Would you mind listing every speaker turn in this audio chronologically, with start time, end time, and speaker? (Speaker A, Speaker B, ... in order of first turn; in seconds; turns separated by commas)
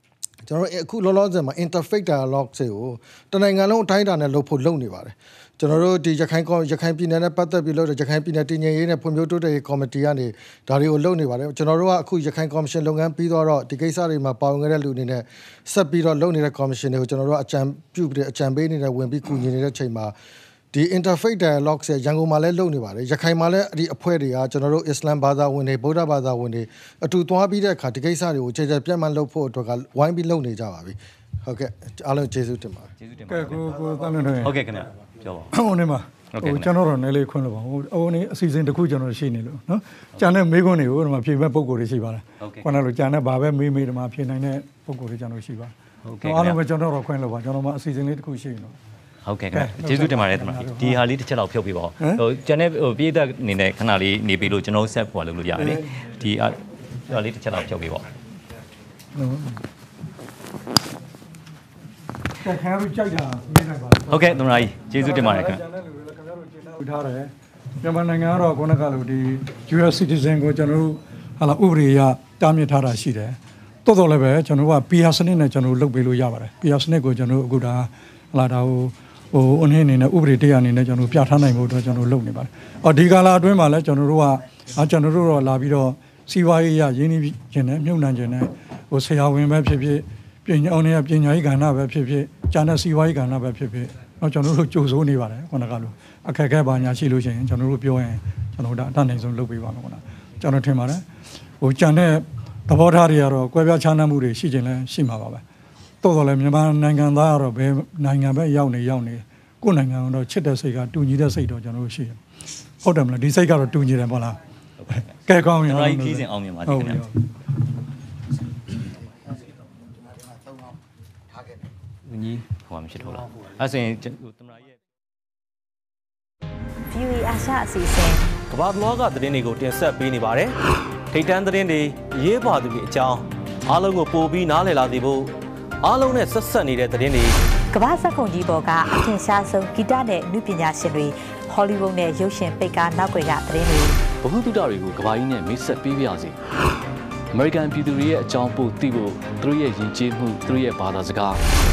Speaker A: 0.5-20.1, Speaker A: 20.7-32.9, Speaker B: 33.0-33.8, Speaker C: 33.3-34.7, Speaker B: 34.4-35.5, Speaker C: 35.5-48.7, Speaker B: 36.3-36.7, Speaker B: 42.4-42.7, Speaker B: 46.0-46.6, Speaker B: 49.2-58.1, Speaker C: 49.5-51.0, Speaker C: 52.0-52.2, Speaker C: 55.6-55.9, Speaker C: 59.1-59.6, Speaker C: 62.4-101.0, Speaker B: 64.1-65.6, Speaker C: 101.6-105.4, Speaker C: 106.0-112.2, Speaker C: 112.8-117.2, Speaker B: 114.8-115.1, Speaker B: 115.6-117.0, Speaker B: 122.0-124.7, Speaker D: 126.9-128.3, Speaker E: 128.5-130.6, Speaker E: 131.1-137.3, Speaker D: 137.7-144.1, Speaker F: 144.1-146.4, Speaker F: 147.3-151.4